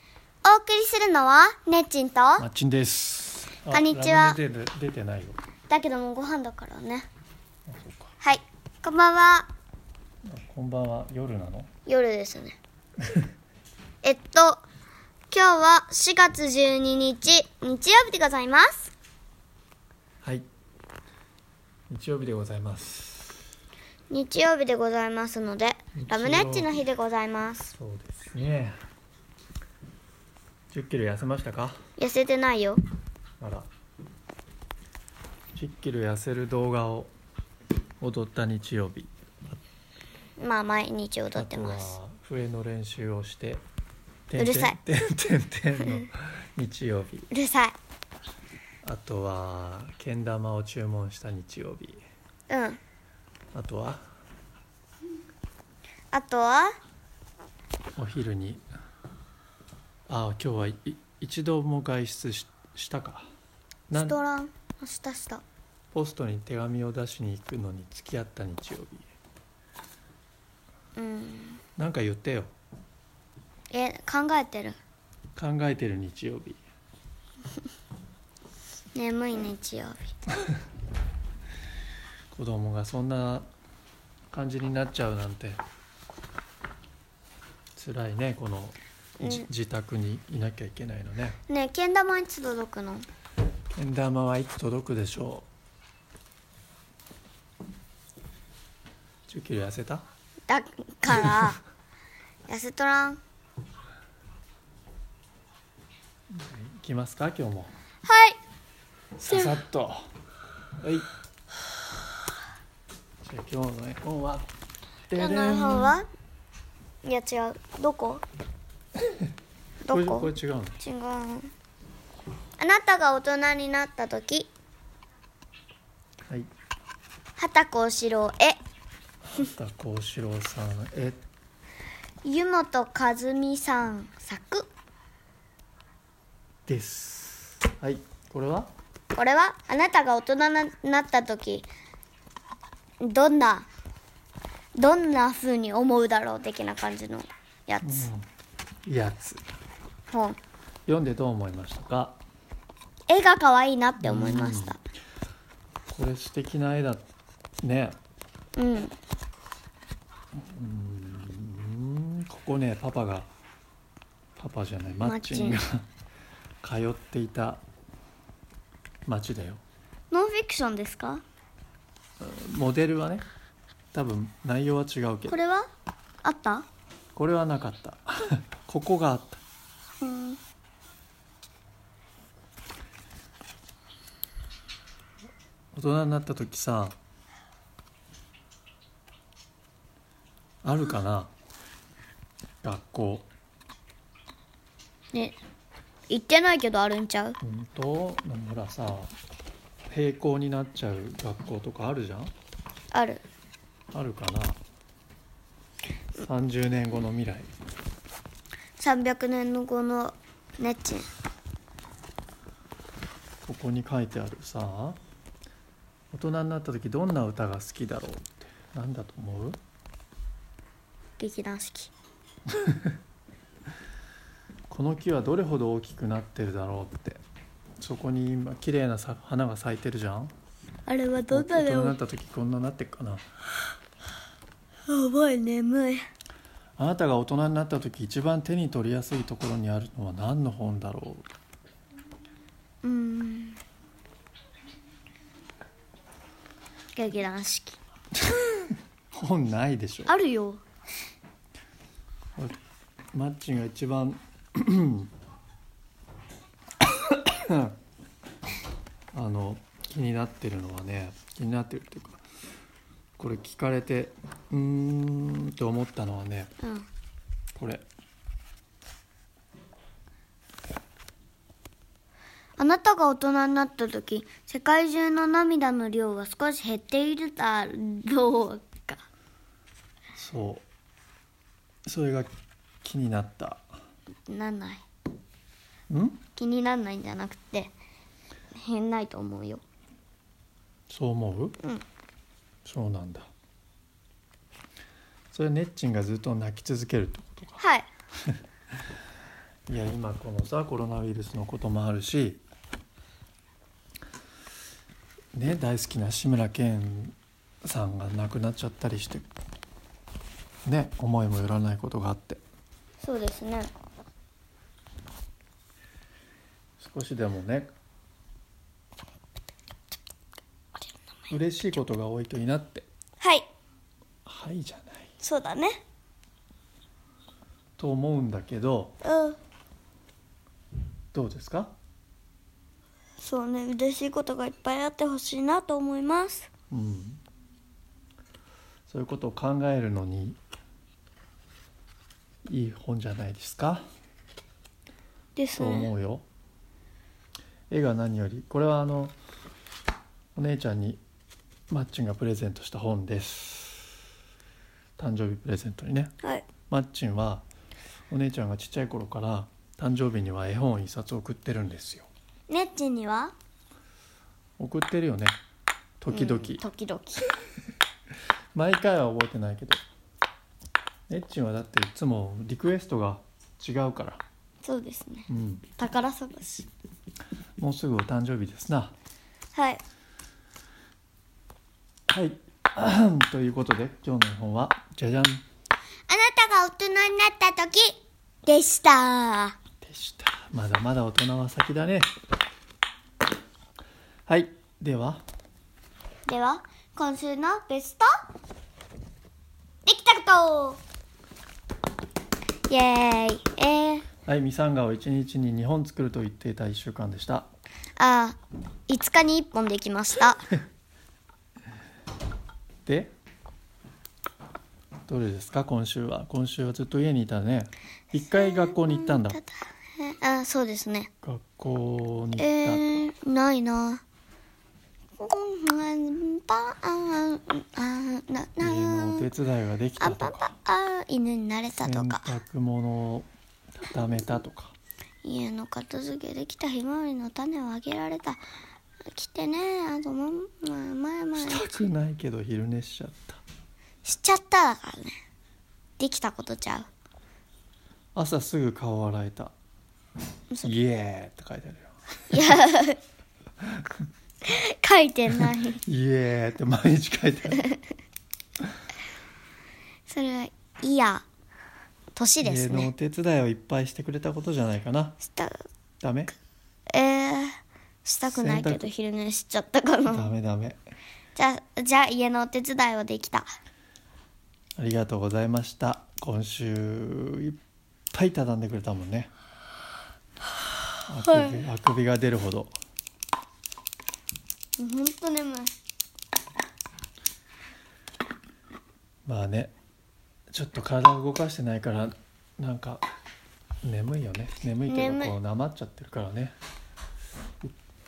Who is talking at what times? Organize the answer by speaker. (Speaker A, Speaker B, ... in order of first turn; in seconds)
Speaker A: 0.4-2.5, 3.7-4.4, 5.7-7.1, 8.2-9.5, 11.8-12.6, 14.0-14.6, 15.3-18.9, 24.1-27.7, 32.0-32.8, 40.4-42.0, 44.4-44.8, 47.3-47.8, 52.5-52.8, 56.1-56.7, 63.9-65.4, 71.0-71.6, 73.7-74.8, 78.9-80.1, 89.2-89.5, 91.5-93.1, 100.5-101.6, 102.5-103.2, 108.0-108.4, 115.1-116.1, 117.0-118.2, 119.8-121.5, 122.6-124.5, 127.4-128.6, 132.2-134.7, 139.1-141.7, 143.0-143.7, 144.7-148.1, 150.1-150.4, 153.1-154.8, 158.6-158.9, 165.0-165.6, 170.1-171.2, 175.3-175.7, 176.2-176.7, 180.0-180.4, 195.1-195.4, 196.1-197.4, 202.9-203.2, 208.8-211.1, 221.2-221.9, 230.9-231.9, 234.9-236.1, 242.8-243.6, 246.9-247.8, 250.1-250.6, 266.6-266.9, 272.6-279.0, 284.3-284.8, 286.3-287.7, 288.5-289.6, 297.6-297.9, 313.0-313.7, 323.2-323.5, 325.2-325.8, 329.0-329.4, 333.2-336.5, 345.4-345.9, 362.5-363.3, 366.1-367.3, 374.6-376.7, 379.5-379.8, 386.1-389.6, 396.2-398.1, 399.9-400.8, 402.7-404.1, 408.0-410.4, 418.3-421.1, 422.4-424.0, 425.2-429.3, 430.0-432.4, 435.2-438.4, 439.1-441.7, 444.0-445.2, 446.0-446.9, 452.3-453.0, 454.4-455.8, 457.6-457.8, 460.1-461.2, 462.1-462.9, 465.3-465.6, 466.9-470.3, 471.3-473.5, 481.2-481.6, 484.8-485.7, 494.9-495.4
Speaker B: 2.4-5.4, 7.7-8.1, 10.2-11.7, 21.9-23.4, 25.9-26.7, 27.7-28.8, 30.7-31.8, 33.4-33.7, 35.5-37.1, 38.0-39.6, 41.3-43.6, 44.3-47.3, 48.8-52.0, 53.5-54.0, 58.0-58.6, 60.1-63.3, 63.9-64.2, 65.9-69.1, 71.8-72.5, 75.3-76.6, 82.3-83.5, 84.3-85.6, 87.7-91.4, 93.7-95.5, 99.3-100.0, 106.3-107.7, 109.2-110.1, 110.8-111.1, 113.2-114.5, 115.1-116.0, 119.9-120.8, 129.3-131.2, 136.7-138.7, 147.8-148.3, 148.8-149.4, 150.9-152.2, 154.0-154.8, 155.9-157.1, 157.6-158.0, 160.3-163.3, 164.3-165.9, 166.6-167.6, 169.1-169.6, 172.2-173.2, 173.9-175.4, 177.1-179.4, 185.7-186.9, 190.6-191.3, 192.6-193.3, 197.4-199.1, 199.9-202.3, 203.9-204.6, 206.1-207.5, 213.4-215.0, 216.1-219.6, 222.5-222.8, 224.7-227.2, 227.8-230.3, 231.3-233.2, 236.8-241.3, 249.1-250.1, 253.1-255.1, 256.8-257.8, 259.1-262.2, 263.2-266.5, 267.5-267.9, 280.2-280.6, 281.9-282.3, 282.8-283.6, 285.9-286.2, 290.9-291.6, 292.6-293.3, 295.3-297.6, 299.7-302.4, 305.3-309.2, 310.6-312.4, 316.8-317.7, 321.3-322.9, 324.2-325.1, 327.8-329.0, 331.1-331.7, 336.7-337.2, 338.9-340.4, 342.4-343.9, 345.5-346.2, 347.7-349.1, 350.4-351.0, 351.7-353.9, 355.0-356.1, 356.7-357.4, 358.1-362.1, 364.6-365.4, 366.0-366.6, 368.5-369.8, 371.1-374.2, 375.3-375.7, 377.6-378.9, 382.1-385.4, 389.8-392.1, 394.3-395.2, 404.2-407.5, 412.9-413.1, 415.1-419.4, 421.2-423.0, 428.6-430.5, 431.8-434.8, 441.4-443.4, 448.1-449.5, 450.6-452.4, 455.4-457.6, 462.4-465.2, 466.0-466.3, 468.3-468.9, 470.1-470.8, 474.8-477.6, 478.1-479.3, 481.1-482.7, 489.2-489.7, 490.5-493.0, 493.8-496.5